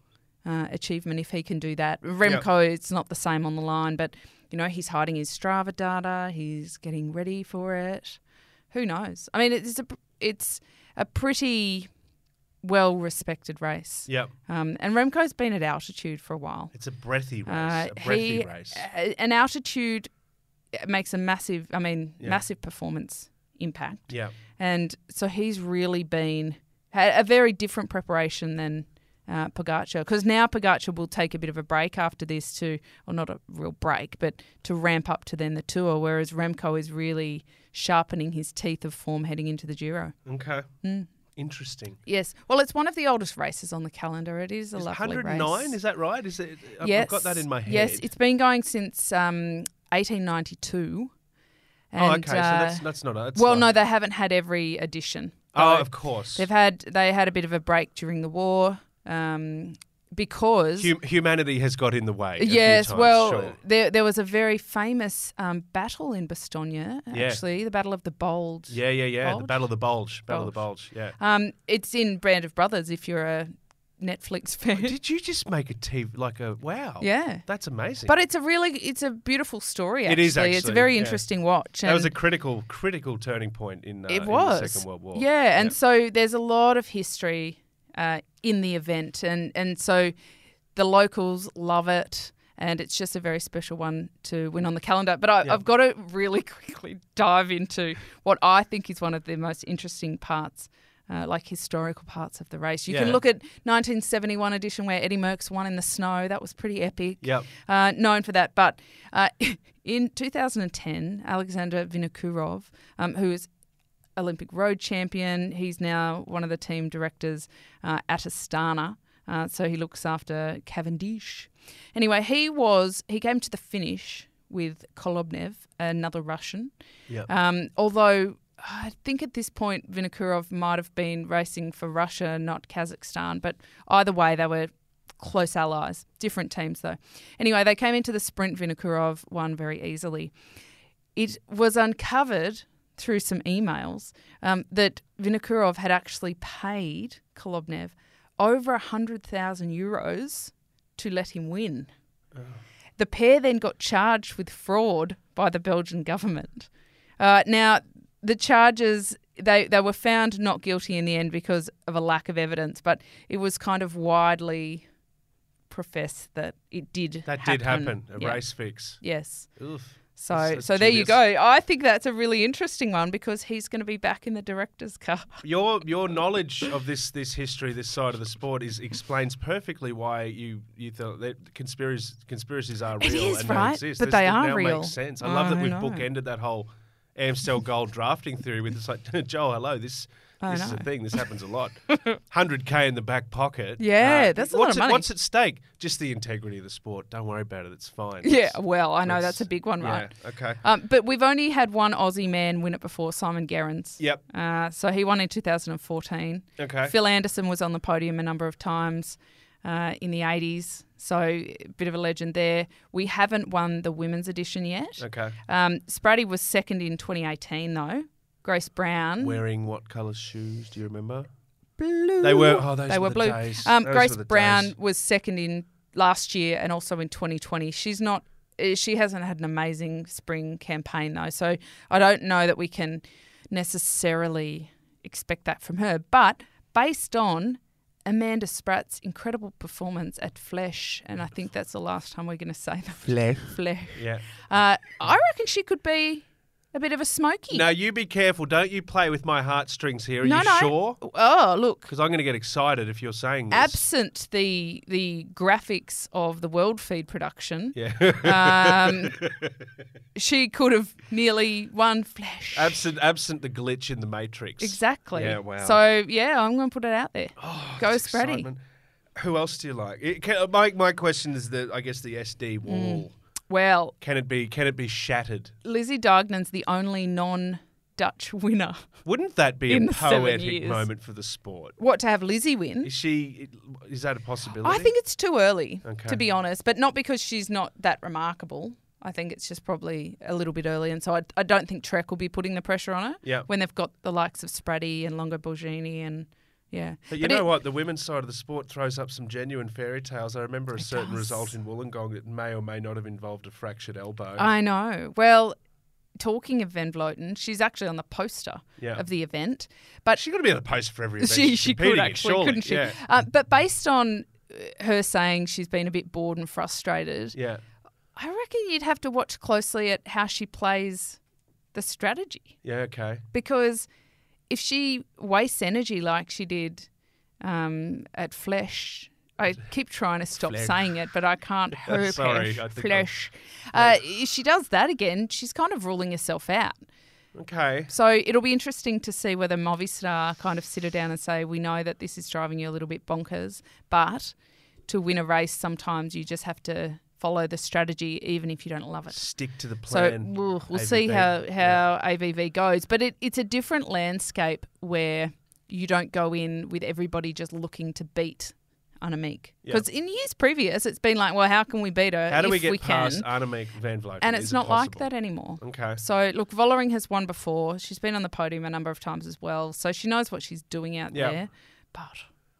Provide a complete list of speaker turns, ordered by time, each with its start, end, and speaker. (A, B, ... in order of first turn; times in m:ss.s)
0:00.4-0:08.2 A
0:08.7-0:11.9 A
0:12.6-0:16.7 A
0:14.1-0:14.3 B
0:16.7-0:18.8 B
0:17.4-0:20.1 A
0:20.7-0:40.2 A
0:24.1-0:24.3 B
0:40.2-0:40.7 B
0:40.8-0:41.1 A
0:41.3-0:42.0 B
0:42.0-0:45.8 A
0:44.7-0:48.1 B
0:46.8-0:51.1 A
0:51.9-1:00.9 A
0:52.0-0:53.7 B
0:55.5-0:56.5 B
1:00.8-1:03.6 B
1:02.4-1:14.9 A
1:07.1-1:07.4 B
1:08.7-1:11.2 B
1:14.7-1:18.1 B
1:17.0-1:17.4 A
1:18.0-1:22.1 A
1:20.0-1:21.2 B
1:21.8-1:25.7 B
1:24.1-1:30.1 A
1:30.7-1:53.5 A
1:42.9-1:43.2 B
1:47.2-1:47.5 B
1:54.2-2:06.7 A
2:07.2-2:20.3 A
2:21.2-2:31.9 A
2:32.3-2:32.6 B
2:33.0-2:44.9 A
2:45.7-2:49.6 A
2:47.2-2:49.0 B
2:49.6-2:51.2 B
2:50.2-2:55.4 A
2:55.4-3:20.6 B
3:03.0-3:06.0 A
3:10.4-3:11.2 A
3:13.8-3:15.0 A
3:18.2-3:39.4 A
3:26.6-3:26.9 B
3:35.0-3:35.4 B
3:39.2-3:41.3 B
3:41.8-4:07.6 A
3:42.2-3:44.7 B
4:03.9-4:04.2 B
4:07.5-4:11.0 B
4:10.2-4:11.9 A
4:11.8-4:13.8 B
4:13.5-4:19.2 A
4:17.7-4:19.5 B
4:20.1-4:22.8 A
4:22.5-4:25.8 B
4:24.6-4:28.5 A
4:27.4-4:28.6 B
4:29.2-4:33.1 B
4:32.6-4:34.0 A
4:34.0-4:35.6 B
4:35.6-4:38.9 A
4:39.0-4:41.8 B
4:39.7-4:40.9 A
4:41.8-4:42.9 A
4:42.8-4:44.9 B
4:44.6-4:57.5 A
4:45.8-4:46.2 B
4:53.2-4:53.5 B
4:57.1-5:04.4 B
5:00.8-5:01.5 A
5:04.4-5:05.6 A
5:06.2-5:10.2 A
5:08.8-5:09.0 B
5:10.1-5:13.0 B
5:11.2-5:17.4 A
5:17.3-5:17.6 B
5:18.2-5:21.2 A
5:21.7-5:22.6 A
5:22.6-5:23.2 B
5:23.3-5:23.9 A
5:24.5-5:26.9 A
5:27.4-5:36.8 A
5:30.4-5:31.0 B
5:31.8-5:33.1 B
5:33.7-5:34.0 B
5:37.3-5:37.9 B
5:37.9-5:44.3 A
5:44.9-5:49.2 A
5:49.1-5:51.8 B
5:49.8-6:03.3 A
6:02.3-6:06.0 B
6:04.2-6:12.3 A
6:11.1-6:11.4 B